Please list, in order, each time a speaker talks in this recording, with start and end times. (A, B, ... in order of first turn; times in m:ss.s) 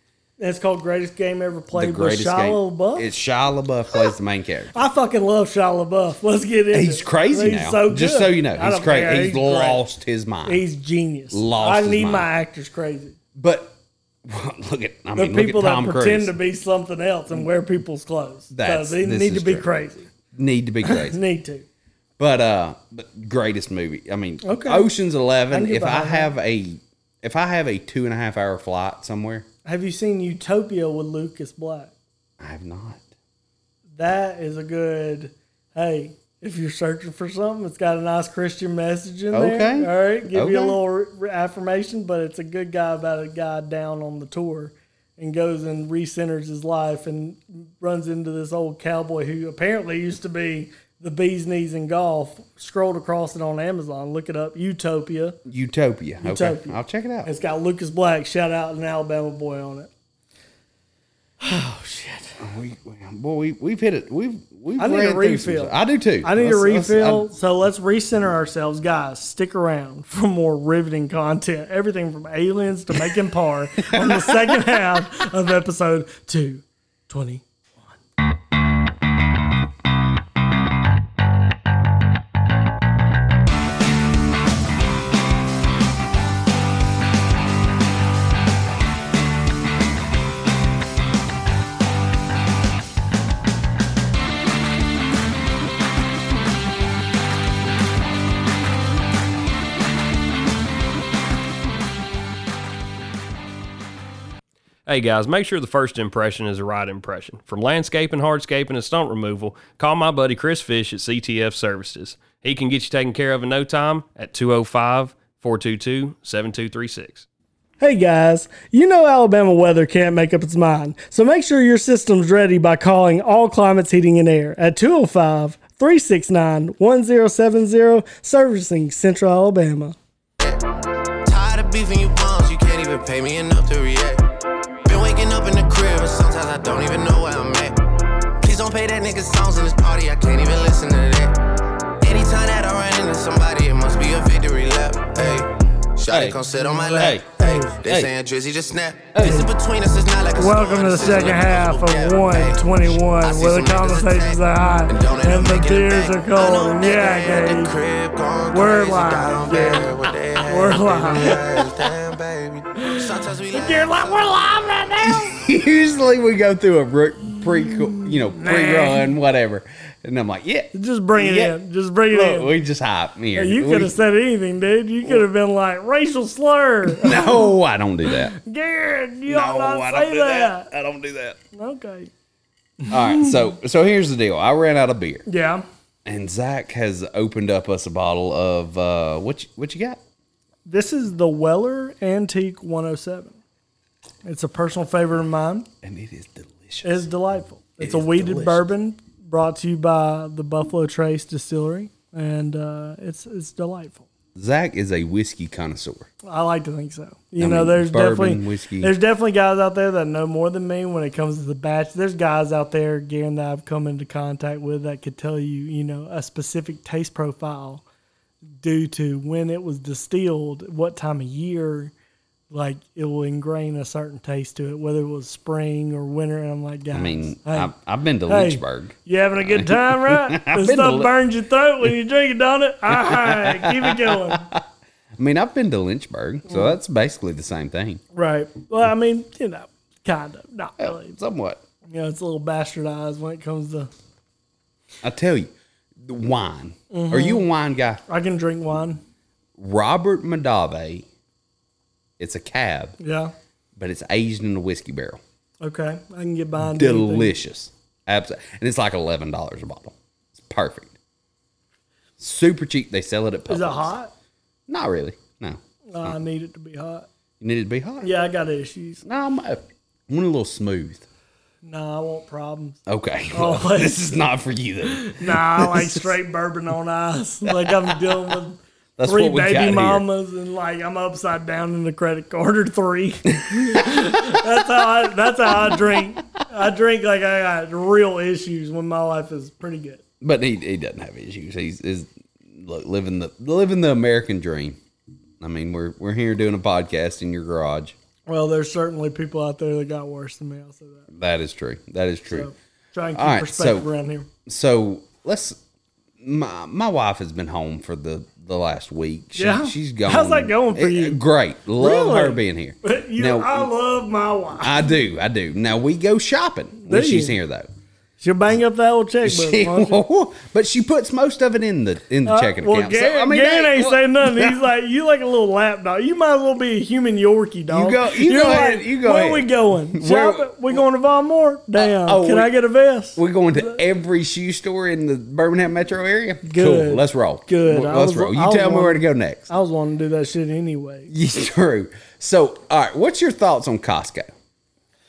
0:00.4-0:03.1 A
0:01.7-0:04.7 B
0:04.7-0:09.8 A
0:06.7-0:10.6 B
0:10.4-0:13.2 A
0:11.3-0:12.3 B
0:13.3-0:16.3 B
0:15.2-0:20.1 A
0:18.5-0:19.7 B
0:20.3-0:21.2 B
0:20.8-0:21.6 A
0:22.2-0:29.4 B
0:24.4-0:24.9 A
0:25.5-0:26.3 A
0:29.6-0:31.9 A
0:32.4-0:33.0 B
0:34.0-0:55.4 A
0:39.3-0:40.8 B
0:55.4-0:57.3 B
0:56.2-0:59.9 A
1:01.4-1:02.4 A
1:02.4-1:07.3 B
1:04.8-1:18.0 A
1:13.9-1:14.6 B
1:44.8-1:57.2 C
1:57.8-2:10.0 A
2:11.2-2:14.2 D
2:14.8-2:17.8 D
2:18.4-2:21.4 D
2:22.0-2:44.5 D
2:26.1-2:26.4 B
2:26.6-2:27.8 A
2:27.0-2:27.2 B
2:27.8-2:28.1 B
2:29.1-2:29.5 B
2:29.2-2:29.5 A
2:30.4-2:37.8 A
2:38.5-2:39.9 A
2:40.5-2:41.4 A
2:42.8-2:45.4 A
2:45.0-2:51.6 B
2:47.6-2:49.1 A
2:50.7-2:52.5 A
2:52.1-2:53.9 B
2:53.3-2:57.5 A
2:56.9-2:58.3 B
2:58.1-3:00.7 A
2:59.3-3:01.4 B
3:01.5-3:02.1 A
3:02.8-3:03.4 A
3:02.9-3:05.2 B
3:05.2-3:05.6 A
3:06.0-3:10.0 B
3:10.6-3:13.4 A
3:14.2-3:15.7 A
3:15.8-3:17.0 B
3:16.8-3:24.0 A
3:17.8-3:18.7 B
3:24.3-3:26.1 B
3:26.2-3:37.8 A
3:27.4-3:28.9 B
3:38.6-3:41.9 A
3:42.5-3:47.7 A
3:46.9-3:51.1 B
3:48.3-3:54.5 A
3:52.9-3:54.6 B
3:55.2-3:58.0 B
3:56.5-3:56.7 A
3:58.1-4:01.2 A
4:00.8-4:01.6 B
4:01.9-4:03.9 A
4:05.0-4:08.0 B
4:06.9-4:07.4 A
4:08.1-4:09.0 A
4:09.6-4:11.0 B
4:12.2-4:13.0 B
4:13.0-4:13.3 A
4:13.8-4:15.2 B
4:15.6-4:17.3 A
4:16.6-4:20.9 B
4:22.2-4:23.9 B
4:23.5-4:24.1 A
4:24.7-4:26.2 B
4:25.9-4:27.1 A
4:27.4-4:28.1 B
4:28.0-4:29.0 A
4:29.0-4:31.0 B
4:31.6-4:32.8 A
4:32.8-4:36.1 B
4:33.3-4:34.0 A
4:34.8-4:50.0 A
4:37.4-4:38.3 B
4:39.0-4:40.0 B
4:43.4-4:44.6 B
4:45.4-4:46.2 B
4:50.2-4:54.8 B
4:55.4-4:58.0 B
4:58.3-5:01.1 A
5:01.1-5:02.5 B
5:02.3-5:04.3 A
5:03.1-5:03.9 B
5:04.4-5:05.6 B
5:06.2-5:13.7 B
5:09.3-5:11.2 A
5:11.8-5:14.9 A
5:14.6-5:17.7 B
5:16.8-5:17.4 A
5:18.2-5:20.0 A
5:19.2-5:24.5 B
5:22.2-5:33.8 A
5:27.7-5:30.8 B
5:31.8-5:32.5 B
5:33.1-5:39.5 B
5:36.4-5:41.1 A
5:41.1-5:44.3 B